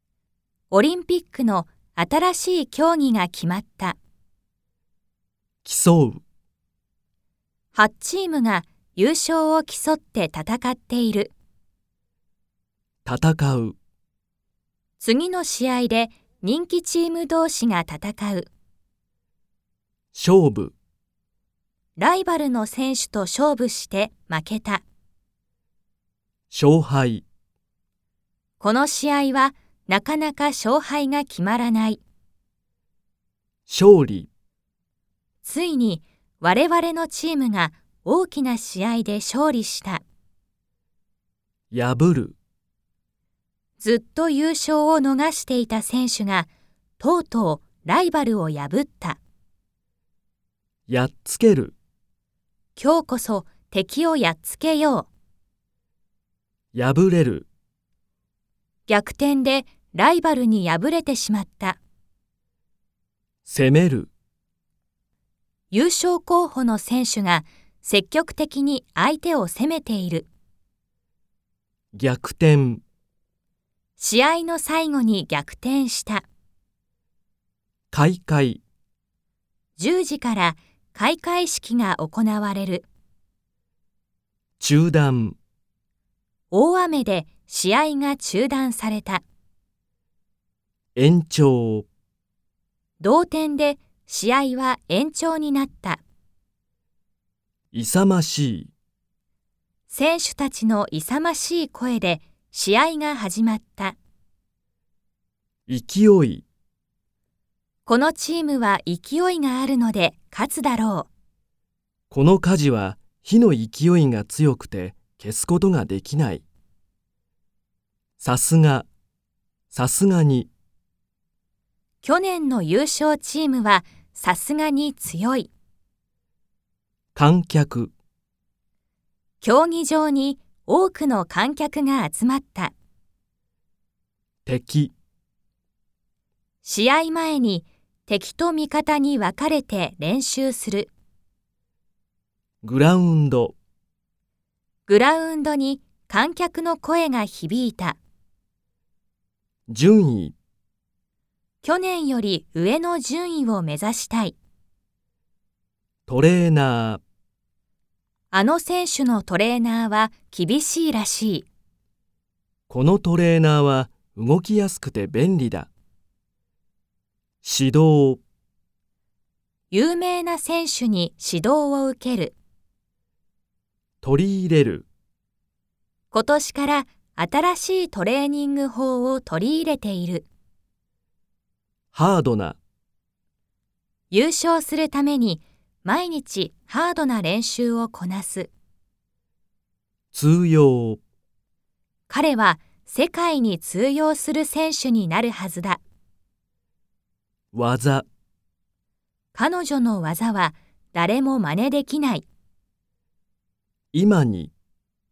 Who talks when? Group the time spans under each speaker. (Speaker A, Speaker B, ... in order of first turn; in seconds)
Speaker A: 0.7-4.0, 7.7-11.3, 15.0-18.5, 22.0-24.8, 28.6-32.0, 35.4-40.0, 43.8-49.2, 52.8-55.1, 58.9-61.8, 65.7-70.3, 74.0-76.3, 79.8-82.9, 86.5-89.2, 93.0-96.0, 99.9-104.0, 107.9-111.1, 122.0-125.5, 129.4-132.7, 136.6-140.9, 144.9-148.0, 151.6-154.3, 158.3-161.5, 169.7-172.3, 176.1-180.3, 184.1-188.5, 192.1-195.8, 199.3-202.3
Speaker B: 5.7-6.2, 13.1-13.8, 20.1-20.8, 26.5-27.2, 33.7-34.3, 41.7-42.4, 50.9-51.8, 56.7-57.5, 63.5-64.1, 71.9-72.8, 77.9-78.6, 84.6-85.4, 91.0-91.9, 97.7-98.7, 105.7-106.5, 112.1-116.5, 118.2-118.9, 119.7-120.5, 127.2-127.9, 134.5-134.9, 142.6-143.6, 149.7-150.4, 156.1-157.0, 162.7-165.7, 167.4-168.2, 174.0-174.9, 181.9-182.6, 190.1-191.0, 197.5-198.1, 203.9-204.5